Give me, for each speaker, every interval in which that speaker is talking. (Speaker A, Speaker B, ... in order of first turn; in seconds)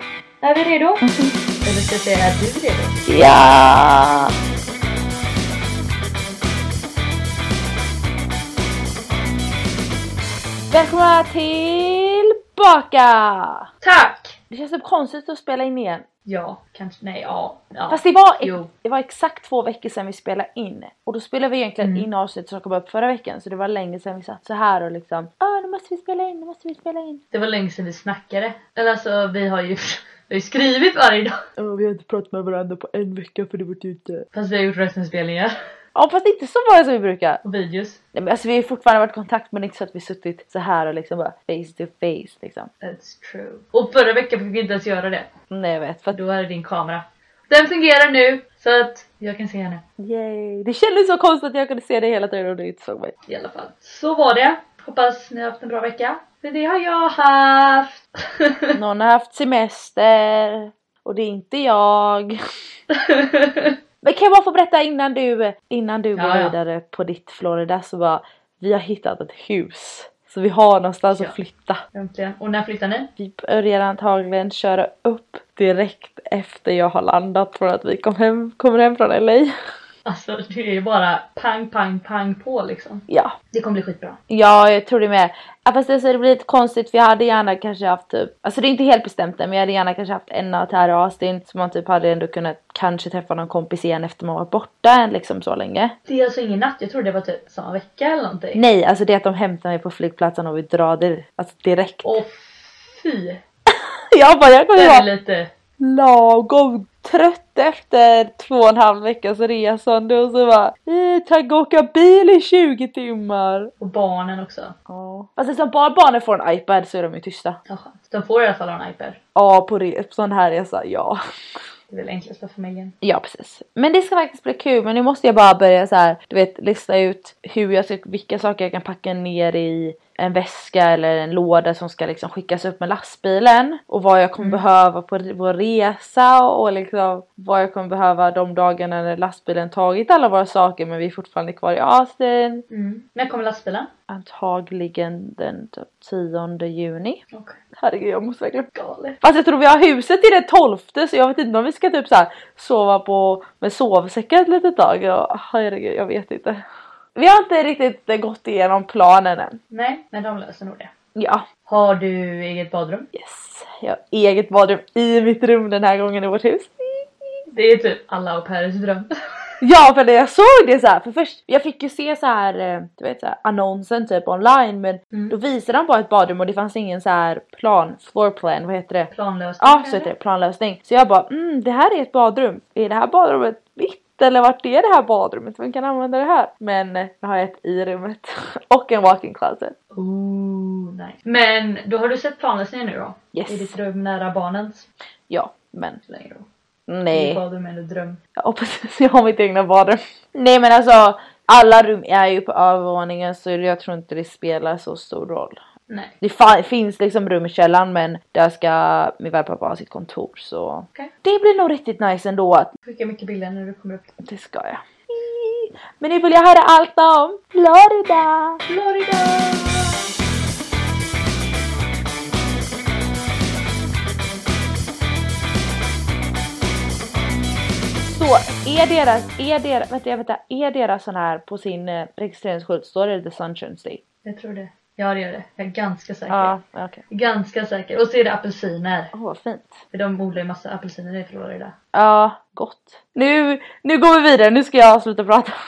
Speaker A: 0.4-1.0, 1.6-3.0, 13.8-14.4, 16.2-18.7, 21.8-22.1, 27.3-31.3, 34.3-35.5, 37.4-38.0, 42.8-45.3, 46.1-49.8, 53.3-58.8, 62.9-63.7, 66.2-66.5, 71.1-71.3, 71.9-73.1, 80.0-84.2, 96.1-98.6, 102.0-103.4, 104.8-105.5, 113.8-114.8, 117.7-119.2, 121.9-122.9, 142.7-143.9, 147.3-147.6, 148.7-149.2, 159.7-160.9, 161.7-163.1, 167.5-169.1, 175.1-175.4, 179.1-180.1, 189.9-194.9, 196.1-196.5, 197.1-198.2, 205.9-206.1, 212.8-214.1, 218.7-220.0, 234.2-236.5, 237.1-239.1, 239.9-241.7
Speaker B: 1.0-1.3, 3.1-4.3, 10.7-13.7, 14.5-16.1, 17.9-27.2, 31.6-34.2, 35.9-37.4, 38.1-42.7, 45.5-46.2, 50.0-53.1, 58.7-62.4, 64.0-71.8, 73.2-79.5, 83.1-83.3, 84.3-95.9, 98.5-102.2, 103.7-105.0, 105.8-113.7, 114.9-117.6, 119.3-121.2, 123.0-142.6, 144.1-147.2, 147.8-148.7, 149.2-156.6, 157.1-159.6, 161.1-161.4, 163.1-167.3, 169.6-179.1, 179.6-189.8, 193.3-193.8, 195.3-196.0, 196.9-197.4, 198.3-205.6, 206.2-212.7, 214.2-218.6, 228.0-234.0, 236.3-237.0, 239.1-239.8, 241.9-245.5